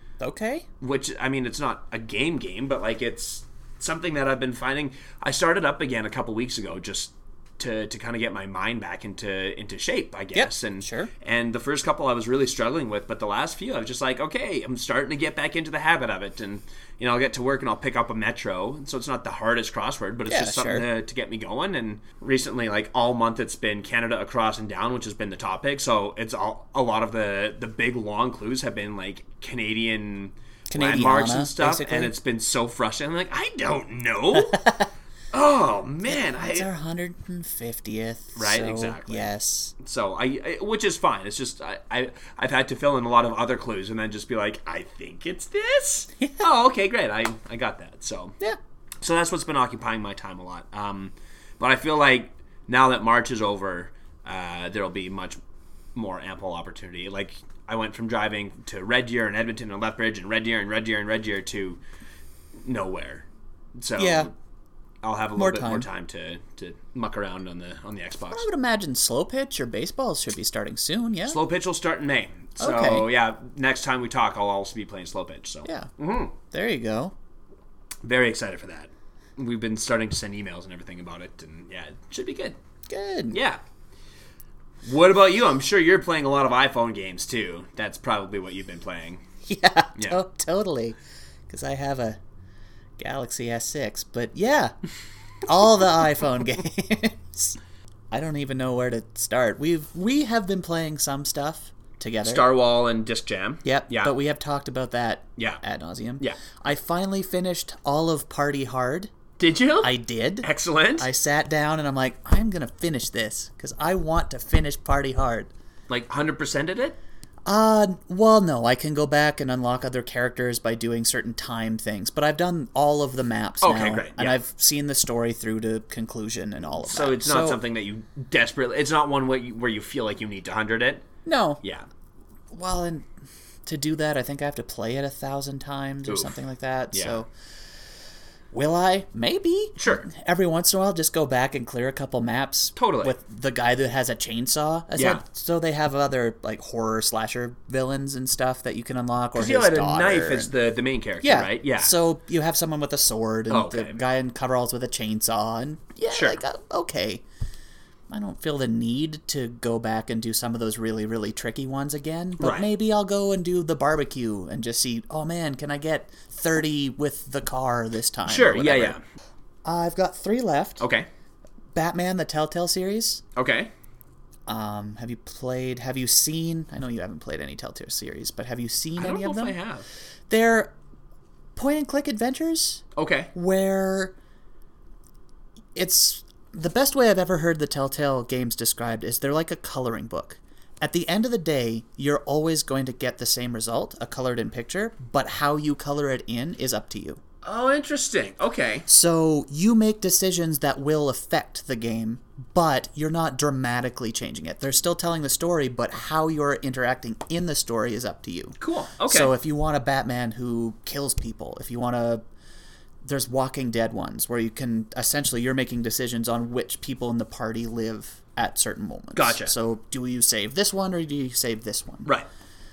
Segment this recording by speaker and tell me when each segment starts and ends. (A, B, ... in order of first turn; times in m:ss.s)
0:00.2-0:00.7 A
0:00.8-0:34.6 B
0:10.3-0:11.1 A
0:20.3-0:20.8 A
0:30.7-0:32.1 A
0:34.3-0:34.9 A
0:35.3-0:36.7 B
0:36.0-0:39.7 A
0:38.4-0:48.4 B
0:49.0-0:55.4 B
0:55.9-1:01.8 B
1:02.6-1:03.2 B
1:03.8-1:04.3 B
1:04.0-1:04.3 A
1:05.0-1:08.4 B
1:05.4-1:05.9 A
1:08.3-1:11.4 A
1:11.2-1:16.4 B
1:12.6-1:13.1 A
1:15.6-1:15.9 A
1:16.4-1:17.1 A
1:18.0-1:22.6 B
1:22.9-1:23.4 A
1:23.3-1:23.6 B
1:24.8-1:29.2 B
1:29.4-1:31.0 A
1:31.5-1:32.2 A
1:33.0-1:34.7 A
1:35.4-1:37.6 A
1:38.1-1:42.5 A
1:42.2-1:44.1 B
1:43.6-1:49.1 A
1:49.4-1:51.1 B
1:49.8-1:55.5 A
1:55.9-1:57.0 B
1:57.4-2:07.6 A
2:03.6-2:04.4 B
2:06.8-2:11.1 B
2:11.2-2:11.6 A
2:11.6-2:11.9 B
2:12.5-2:13.1 A
2:13.6-2:17.3 A
2:16.1-2:16.4 B
2:16.9-2:17.2 B
2:18.5-2:30.5 A
2:19.8-2:20.1 B
2:22.8-2:23.2 B
2:24.9-2:25.2 B
2:29.4-2:31.9 B
2:31.2-2:37.2 A
2:33.5-2:34.0 B
2:36.1-2:36.4 B
2:38.1-2:49.0 A
2:42.4-2:42.7 B
2:48.2-2:49.0 B
2:49.6-2:50.8 A
2:50.8-2:51.1 B
2:51.7-2:53.2 A
2:53.4-2:53.7 B
2:54.5-2:59.6 A
2:59.0-2:59.8 B
3:00.3-3:00.7 A
3:01.6-3:04.1 A
3:03.0-3:03.3 B
3:05.7-3:17.2 A
3:17.4-3:18.9 B
3:18.9-3:32.2 A
3:28.6-3:29.3 B
3:33.0-3:42.1 A
3:39.1-3:39.5 B